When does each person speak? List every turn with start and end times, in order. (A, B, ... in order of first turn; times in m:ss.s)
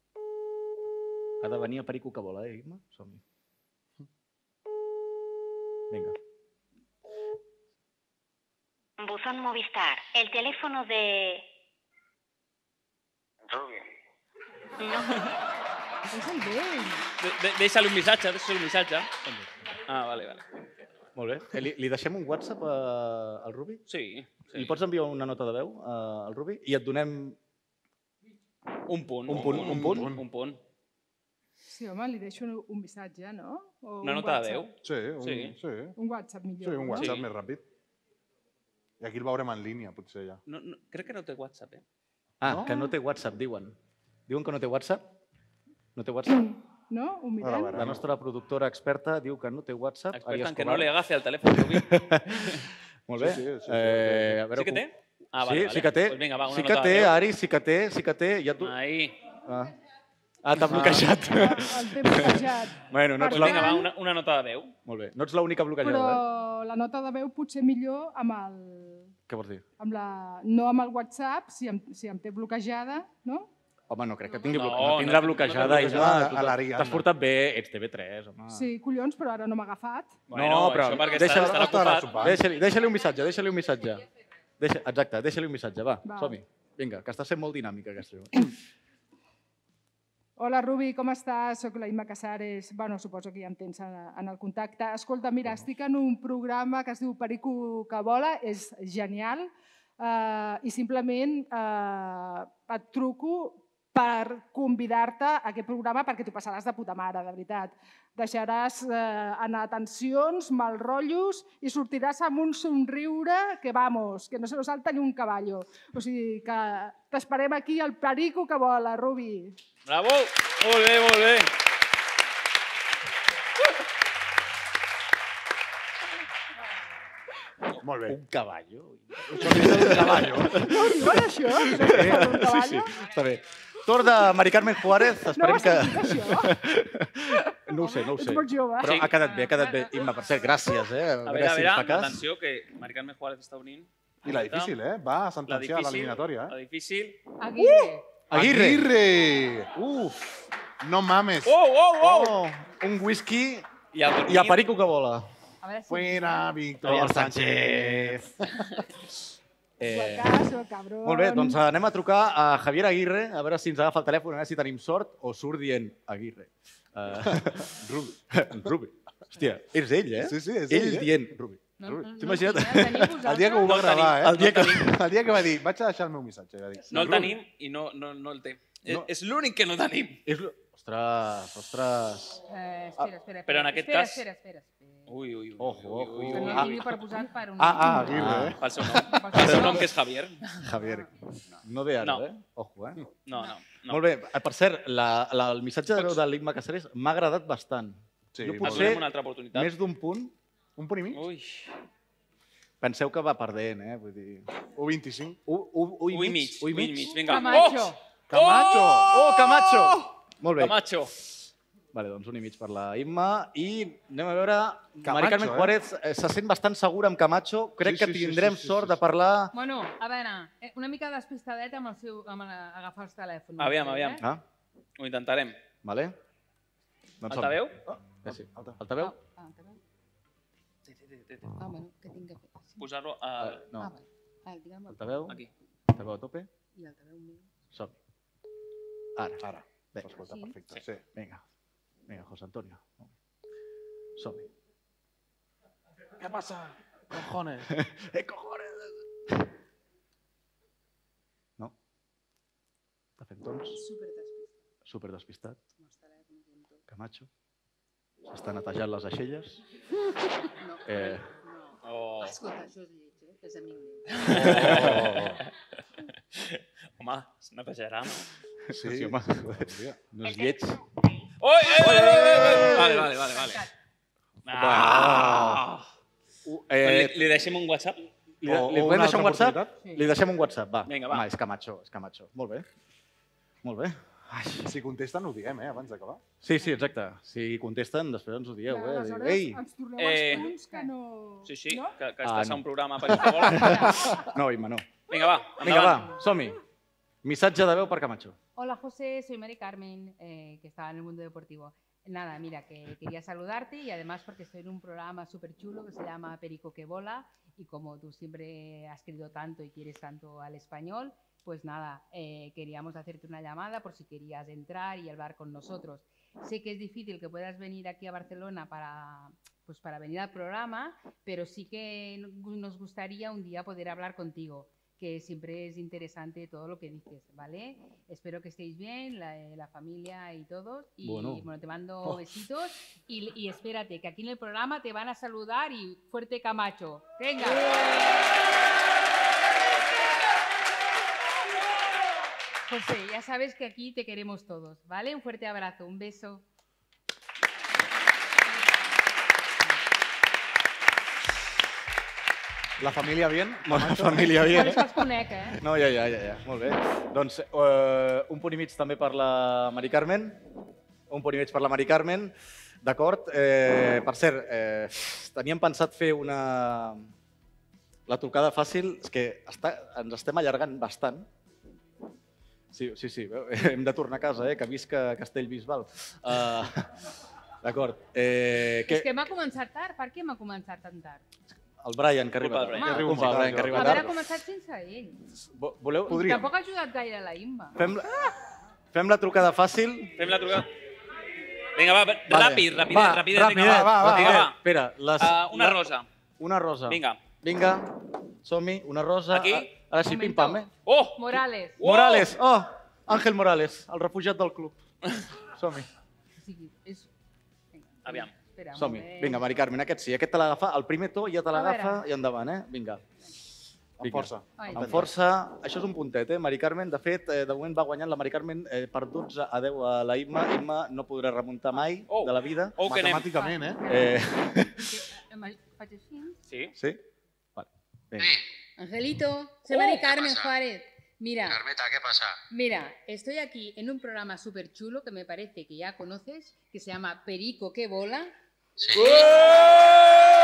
0:01.4-0:03.2 A
0:05.9-0:06.2 A
0:09.0-0:11.5 B
0:16.1-0:17.0 C
0:17.2-0:19.1 D
0:19.9-0:20.4 D
0:21.2-0:23.8 A
0:23.9-0:24.8 D
0:24.5-0:27.4 A
0:28.9-0:30.6 D
0:29.3-0:30.2 A
0:29.3-0:30.2 E
0:31.7-0:34.7 C
0:34.0-0:35.6 D
0:34.8-0:36.0 E
0:36.0-0:37.2 C
0:36.6-0:37.6 E
0:37.0-0:37.3 D
0:39.0-0:40.4 E
0:40.5-0:41.8 D
0:42.4-0:43.8 A
0:42.4-0:42.8 E
0:44.3-0:45.0 A
0:46.0-0:46.5 A
0:46.3-0:47.8 C
0:47.4-0:48.0 E
0:47.7-0:50.9 A
0:50.1-0:52.6 D
0:51.4-0:54.9 A
0:53.2-0:54.4 E
0:54.6-0:57.2 D
0:55.4-0:58.8 A
0:58.6-0:59.2 D
0:59.4-0:59.7 A
1:00.4-1:03.8 A
1:00.7-1:01.0 E
1:01.2-1:03.9 C
1:03.3-1:04.7 D
1:04.9-1:06.2 A
1:05.8-1:09.1 C
1:09.3-1:09.6 A
1:09.8-1:13.5 C
1:13.9-1:18.7 A
1:14.5-1:16.1 D
1:15.6-1:17.1 E
1:18.5-1:20.2 C
1:20.3-1:22.4 D
1:20.3-1:24.1 A
1:21.2-1:22.4 E
1:24.6-1:28.5 A
1:26.0-1:26.4 C
1:30.4-1:59.6 C
1:59.9-2:01.5 D
2:07.8-2:08.2 E
2:08.1-2:22.2 A
2:09.3-2:10.6 E
2:10.5-2:12.9 C
2:11.9-2:12.3 E
2:15.2-2:16.6 C
2:17.7-2:19.0 C
2:18.8-2:19.1 D
2:19.1-2:20.6 F
2:21.2-2:24.8 D
2:24.2-2:26.5 E
2:25.5-2:27.2 D
2:27.4-2:28.1 F
2:28.3-2:28.9 A
2:28.3-2:29.7 E
2:29.8-2:30.2 A
2:30.8-2:31.5 E
2:31.4-2:32.4 D
2:32.0-2:33.7 A
2:33.9-2:34.6 D
2:34.3-2:35.3 A
2:35.6-2:36.5 F
2:35.9-2:38.6 E
2:36.8-2:38.3 A
2:39.8-2:40.5 A
2:39.8-2:41.6 C
2:41.0-2:47.7 A
2:47.3-2:48.2 E
2:48.3-2:53.2 A
2:50.2-2:51.3 E
2:51.8-2:53.8 F
2:53.2-2:57.3 E
2:53.5-2:54.9 D
2:54.2-2:55.0 A
2:56.9-3:00.2 D
2:56.9-2:57.3 A
3:00.3-3:02.4 A
3:02.5-3:05.1 F
3:03.5-3:04.2 D
3:05.1-3:07.0 D
3:05.6-3:06.8 A
3:06.3-3:08.1 F
3:07.6-3:08.6 E
3:08.0-3:08.6 A
3:08.6-3:10.6 D
3:09.0-3:09.9 F
3:09.3-3:09.9 A
3:10.6-3:11.1 A
3:10.8-3:11.1 F
3:11.6-3:13.0 A
3:13.3-3:14.0 D
3:13.9-3:20.3 A
3:18.3-3:19.0 E
3:18.6-3:19.7 D
3:20.8-3:21.2 E
3:21.1-3:21.7 D
3:22.8-3:24.5 A
3:24.8-3:25.4 E
3:25.5-3:27.3 A
3:26.1-3:31.1 D
3:27.3-3:28.0 F
3:28.3-3:29.2 E
3:29.1-3:30.8 A
3:31.9-3:39.5 A
3:35.0-3:35.7 E
3:37.8-3:39.0 E
3:39.5-3:44.2 F
3:43.6-3:44.2 D
3:45.0-3:45.6 D
3:45.8-3:46.2 A
3:47.2-3:49.2 A
3:47.3-3:47.8 D
3:48.3-3:48.8 E
3:49.0-3:49.8 F
3:50.9-3:51.5 D
3:51.6-3:52.8 F
3:52.8-3:53.6 D
3:53.4-3:53.9 A
3:53.8-3:55.2 F
3:54.9-3:55.4 A
3:55.9-3:56.5 A
3:56.8-3:57.5 F
3:59.2-3:59.4 A
3:59.4-4:01.0 E
3:59.9-4:00.2 A
4:00.2-4:00.6 F
4:01.2-4:01.4 A
4:02.1-4:03.1 A
4:04.2-4:04.5 A
4:06.2-4:07.7 E
4:07.6-4:09.4 A
4:13.2-4:13.8 A
4:13.8-4:14.5 F
4:14.8-4:15.6 A
4:15.8-4:16.8 F
4:16.9-4:17.3 A
4:18.3-4:19.6 A
4:20.6-4:24.4 F
4:20.9-4:21.3 A
4:21.8-4:22.4 D
4:24.2-4:25.4 D
4:24.2-4:25.4 E
4:24.5-4:25.0 A
4:26.4-4:28.3 D
4:28.7-4:30.8 A
4:28.7-4:30.0 E
4:31.4-4:33.6 D
4:31.7-4:33.1 A
4:33.2-4:33.7 F
4:34.5-4:35.9 D
4:34.5-4:35.6 A
4:36.4-4:37.3 A
4:36.8-4:38.1 D
4:38.4-4:42.7 A
4:38.4-4:39.8 E
4:39.8-4:40.1 F
4:40.9-4:41.2 D
4:43.6-4:44.7 A
4:44.6-4:46.2 E
4:46.4-4:49.6 A
4:48.7-4:51.9 C
4:50.0-4:50.5 D
4:50.3-4:50.9 F
4:51.5-4:54.0 D
4:52.2-4:54.9 A
4:55.1-4:56.1 D
4:55.6-4:56.6 A
4:57.2-4:58.4 A
4:58.6-5:37.9 F
5:31.0-5:31.4 A
5:42.7-5:46.4 F
5:52.8-5:54.8 E
5:52.8-5:54.9 A
5:54.4-5:55.6 F
5:55.5-6:00.4 A
6:01.1-6:07.1 A
6:08.1-6:11.3 A
6:12.7-6:16.9 A
6:17.6-6:19.1 A
6:18.9-6:21.2 F
6:21.8-6:24.2 A
6:22.4-6:23.4 D
6:22.8-6:25.2 F
6:22.8-6:24.1 E
6:25.5-6:26.5 A
6:26.1-6:27.8 F
6:26.1-6:26.5 E
6:27.8-6:28.1 A
6:28.9-6:30.6 A
6:30.2-6:30.7 D
6:31.8-6:34.6 D
6:32.3-6:35.8 A
6:33.4-6:34.5 E
6:35.2-6:36.1 D
6:36.4-6:40.7 A
6:36.9-6:37.2 D
6:39.3-6:39.7 D
6:40.0-6:41.8 F
6:40.9-6:42.3 D
6:41.8-6:44.8 A
6:45.6-6:45.9 A
6:46.4-6:47.1 F
6:47.7-6:49.5 F
6:48.0-6:48.3 D
6:48.8-6:53.0 A
6:51.5-6:52.0 F
6:54.0-6:55.1 E
6:54.0-7:02.8 A
6:54.6-6:55.0 F
7:02.1-7:03.3 D
7:02.8-7:03.8 E
7:03.3-7:04.3 F
7:03.8-7:04.9 A
7:04.8-7:06.4 F
7:06.5-7:06.7 D
7:06.8-7:07.0 A
7:07.6-7:08.3 A
7:08.2-7:08.4 G
7:08.8-7:11.6 F
7:10.0-7:10.5 G
7:11.5-7:12.4 G
7:12.5-7:18.4 F
7:18.8-7:19.4 G